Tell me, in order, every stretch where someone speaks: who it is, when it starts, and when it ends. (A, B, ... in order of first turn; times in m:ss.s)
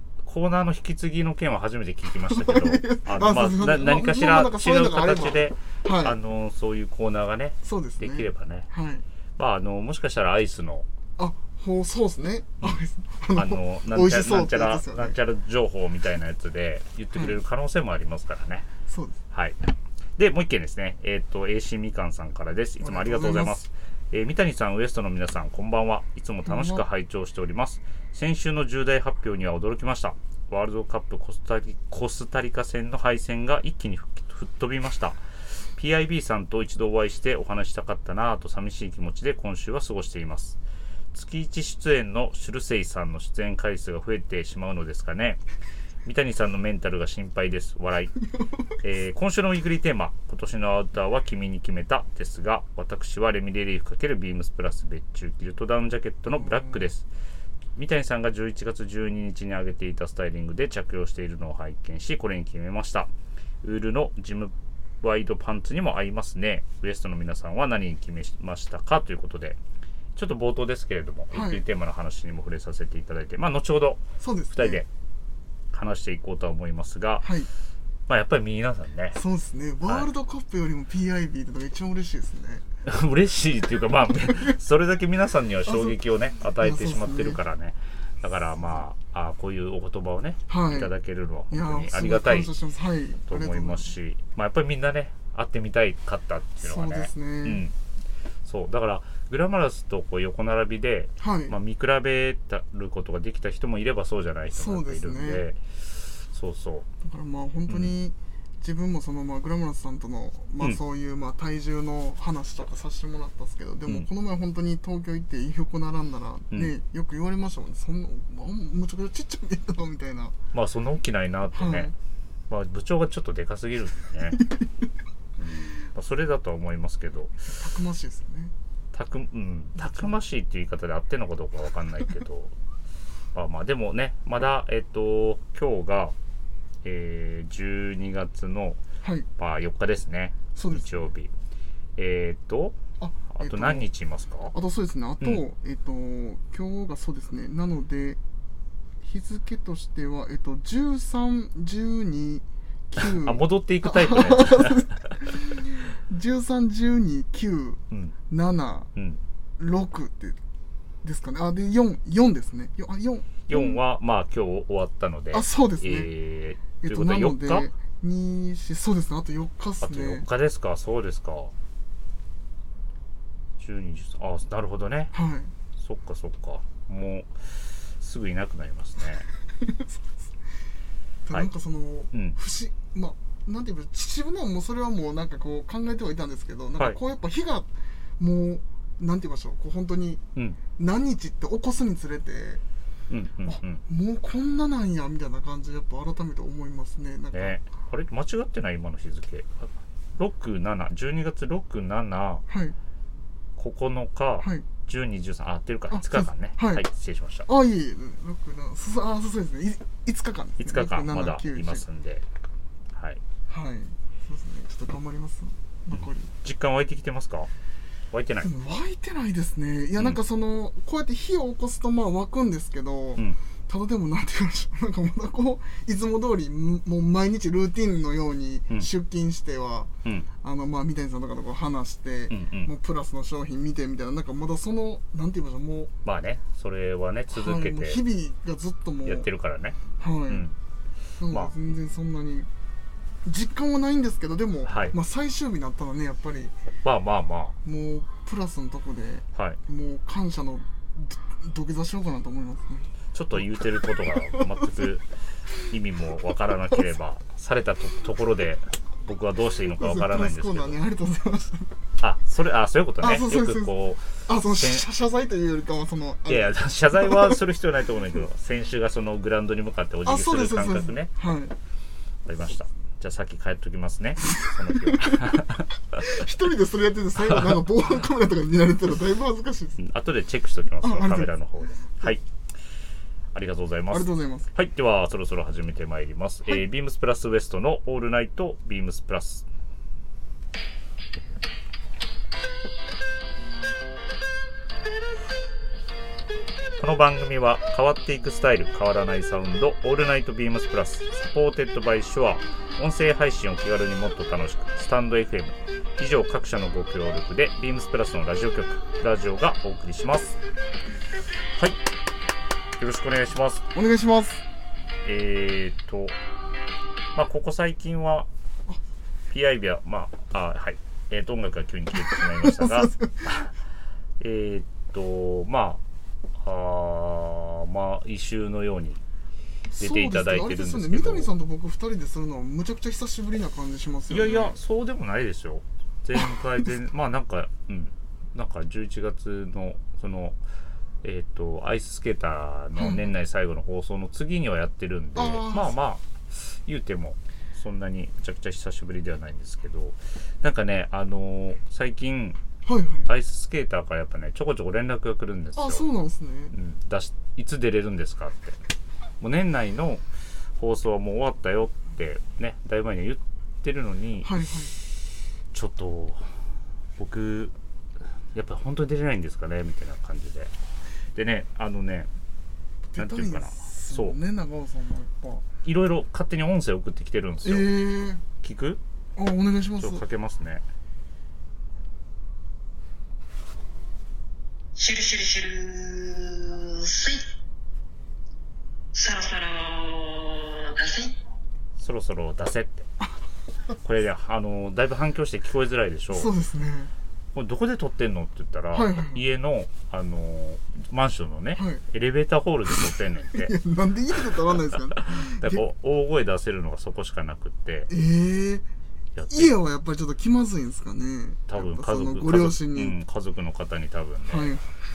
0:00.2-0:08.7 A
0:02.3-0:06.2 B
0:07.6-0:09.0 B
0:09.4-0:10.9 A
0:11.2-0:15.2 B
0:13.3-0:18.7 A
0:17.1-0:17.4 B
0:18.9-0:19.2 B
0:19.3-0:19.6 A
0:20.2-0:35.2 A
0:22.8-0:23.6 B
0:26.5-0:26.8 B
0:35.7-0:40.6 A
0:41.1-0:45.4 A
0:46.0-0:48.1 A
0:48.8-0:57.0 A
0:56.3-0:56.9 B
0:57.8-1:03.1 A
1:03.6-1:09.6 A
1:10.2-1:14.9 A
1:11.3-1:11.6 B
1:14.2-1:14.8 B
1:15.7-1:17.3 A
1:17.2-1:17.5 B
1:18.1-1:19.2 A
1:19.2-1:22.6 B
1:19.8-1:20.1 A
1:22.9-1:32.5 A
1:25.6-1:26.0 B
1:26.6-1:27.4 B
1:30.5-1:30.9 B
1:31.5-1:33.9 B
1:33.3-1:37.7 A
1:36.6-1:37.7 B
1:38.4-1:46.9 A
1:41.2-1:41.6 B
1:44.5-1:45.4 B
1:47.0-2:00.4 B
1:47.7-1:47.9 A
2:00.5-2:01.9 A
2:01.5-2:01.9 B
2:02.5-2:04.4 A
2:04.4-2:04.7 B
2:05.4-2:07.6 A
2:07.5-2:08.5 B
2:08.9-2:12.5 A
2:09.8-2:10.1 B
2:13.3-2:16.2 A
2:16.8-2:18.8 A
2:19.0-2:19.3 B
2:19.4-2:21.3 A
2:20.6-2:21.1 B
2:22.0-2:22.8 A
2:23.0-2:23.9 B
2:23.3-2:24.5 A
2:24.5-2:28.2 B
2:29.0-2:38.9 B
2:33.0-2:35.1 A
2:39.0-2:39.2 A
2:39.6-2:40.4 B
2:41.0-2:43.8 B
2:43.5-2:47.7 A
2:45.3-2:46.1 B
2:46.8-2:50.3 B
2:49.8-2:51.5 A
2:53.6-2:55.1 A
2:55.1-2:55.5 B
2:55.8-2:59.3 A
2:59.6-3:00.0 B
3:01.2-3:10.2 B
3:10.8-3:12.6 B
3:13.1-3:13.8 A
3:13.4-3:17.6 B
3:17.3-3:22.4 A
3:22.5-3:22.8 B
3:23.6-3:27.5 A
3:24.4-3:24.7 B
3:25.9-3:26.9 B
3:27.5-3:31.8 B
3:30.6-3:32.2 A
3:32.9-3:33.2 A
3:33.5-3:36.3 B
3:35.9-3:37.5 A
3:38.1-3:38.5 A
3:38.4-3:49.9 B
3:50.4-3:55.9 B
3:52.3-3:52.7 A
3:56.0-3:58.0 A
3:57.3-3:59.3 B
3:59.0-4:00.5 A
4:00.0-4:00.5 B
4:01.2-4:02.5 B
4:01.3-4:01.5 A
4:03.2-4:06.5 B
4:04.6-4:05.0 A
4:06.8-4:07.6 A
4:07.6-4:13.4 B
4:13.1-4:15.1 A
4:14.3-4:14.6 B
4:15.6-4:20.8 A
4:19.7-4:21.7 B
4:22.0-4:24.9 A
4:23.0-4:27.4 B
4:26.3-4:31.1 A
4:30.0-4:31.6 B
4:32.3-4:36.0 A
4:34.7-4:35.4 B
4:36.0-4:39.8 B
4:39.8-4:42.2 A
4:40.8-4:41.3 B
4:43.3-4:49.5 A
4:43.9-4:44.5 B
4:56.8-5:10.4 A
5:12.8-5:13.7 A
5:13.7-5:14.4 B
5:15.0-5:16.2 A
5:17.2-5:18.3 A
5:19.3-5:23.5 A
5:22.1-5:23.3 B
5:24.2-5:25.8 A
5:26.4-5:29.0 A
5:29.7-5:34.6 B
5:29.8-5:31.3 A
5:34.1-5:40.4 A
5:41.0-5:52.4 A
5:42.8-5:43.1 B
5:45.2-5:45.7 B
5:52.6-5:53.1 B
5:53.1-5:55.8 A
5:55.6-5:56.5 B
5:56.5-5:58.6 A
5:59.2-6:00.0 A
6:00.6-6:04.8 A
6:04.2-6:04.8 B
6:05.5-6:06.3 A
6:07.0-6:07.5 A
6:08.3-6:10.5 A
6:11.2-6:12.1 A
6:12.9-6:15.4 B
6:13.0-6:14.2 A
6:15.6-6:17.8 A
6:17.4-6:18.2 B
6:18.4-6:18.8 A
6:19.2-6:20.0 B
6:19.8-6:20.6 A
6:24.8-6:27.2 C
6:28.9-6:31.2 C
6:31.8-6:32.9 A
6:33.8-6:36.3 A
6:36.1-6:36.9 B
6:37.3-6:43.6 A
6:38.7-6:39.2 B
6:41.6-6:41.8 B
6:43.3-6:45.6 B
6:44.9-6:47.9 A
6:47.9-6:48.6 B
6:49.2-6:49.6 A
6:49.3-6:53.0 B
6:51.5-6:54.5 A
6:54.3-6:54.7 B